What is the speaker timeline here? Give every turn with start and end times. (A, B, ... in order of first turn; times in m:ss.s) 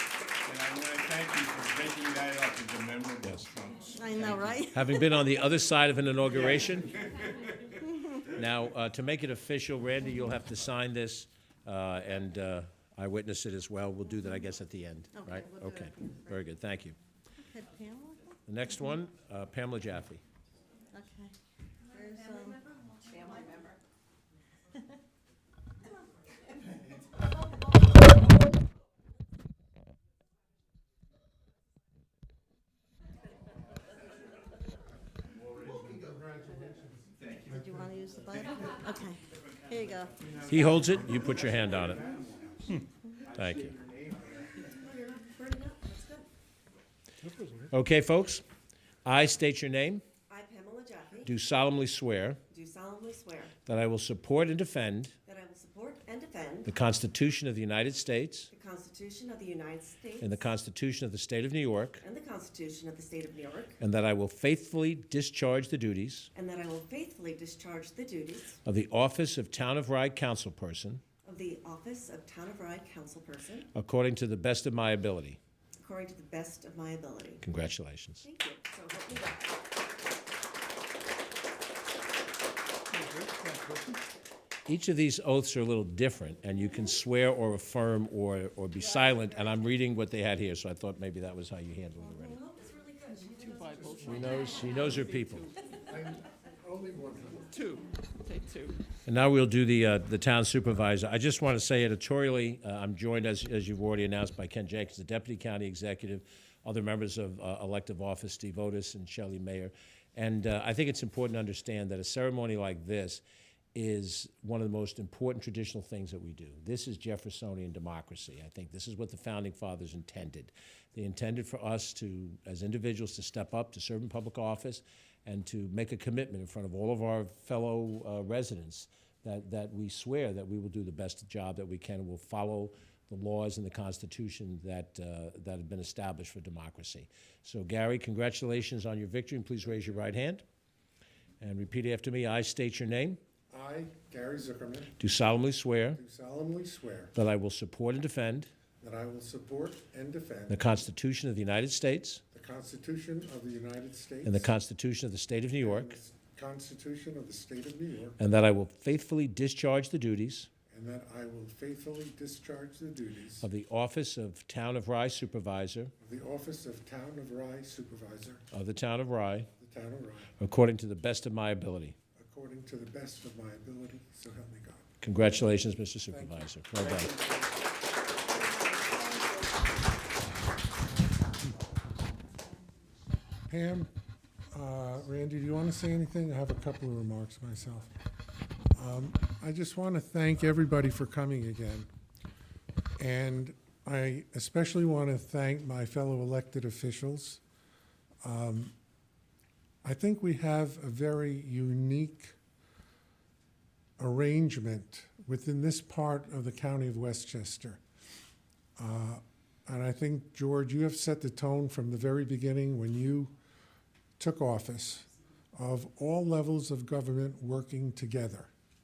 0:00.4-0:04.7 A
0:03.9-0:05.1 B
0:04.7-0:06.9 C
0:06.3-0:07.3 A
0:08.3-0:17.0 C
0:15.2-0:16.4 B
0:17.5-0:18.4 B
0:18.5-0:20.2 C
0:20.9-0:21.3 B
0:21.9-0:23.7 B
0:21.9-0:23.7 D
0:35.3-0:36.1 A
0:35.8-0:38.0 E
0:37.2-0:37.6 A
0:37.5-0:40.3 B
0:40.1-0:44.6 A
0:40.5-0:42.1 C
0:43.3-0:43.7 C
0:44.6-0:46.3 D
0:47.2-0:47.7 E
0:47.7-0:48.4 C
0:49.0-0:50.0 C
0:50.3-0:51.4 D
0:51.2-0:52.4 C
0:52.5-0:53.6 D
0:53.6-0:55.1 C
0:55.3-0:56.7 D
0:56.6-0:58.5 C
0:58.5-1:00.3 D
1:00.2-1:02.0 C
1:02.0-1:03.8 D
1:03.8-1:06.3 C
1:06.3-1:08.6 D
1:08.6-1:11.0 C
1:11.2-1:13.7 D
1:13.7-1:15.4 C
1:15.8-1:17.4 D
1:17.4-1:18.2 C
1:18.2-1:19.6 D
1:22.9-1:23.9 F
1:24.7-1:32.4 C
1:32.2-1:34.9 D
1:33.4-1:35.5 F
1:34.0-1:35.5 C
1:35.9-1:37.6 E
1:37.5-1:38.8 F
1:39.1-1:53.2 C
1:53.8-2:20.4 C
2:21.4-2:23.2 C
2:23.5-2:25.0 E
2:25.0-2:26.0 C
2:26.0-2:27.2 E
2:27.2-2:28.5 C
2:28.8-2:30.7 E
2:30.5-2:32.2 C
2:32.3-2:34.5 E
2:34.2-2:36.0 C
2:35.6-2:38.2 E
2:38.2-2:40.5 C
2:40.7-2:43.5 E
2:43.4-2:45.9 C
2:46.0-2:48.4 E
2:48.5-2:49.5 C
2:49.6-2:50.4 E
2:50.4-2:52.0 C
2:52.2-2:54.9 E
2:55.0-2:57.2 C
2:56.1-2:57.5 E
2:58.4-2:59.5 D
3:00.8-3:01.6 E
3:03.5-3:03.9 E
3:04.5-3:07.9 E
3:08.8-3:11.9 E
3:13.0-3:17.4 E
3:18.2-3:18.7 E
3:19.8-3:22.4 E
3:24.0-3:27.8 E
3:28.8-3:33.3 E
3:34.2-3:38.5 E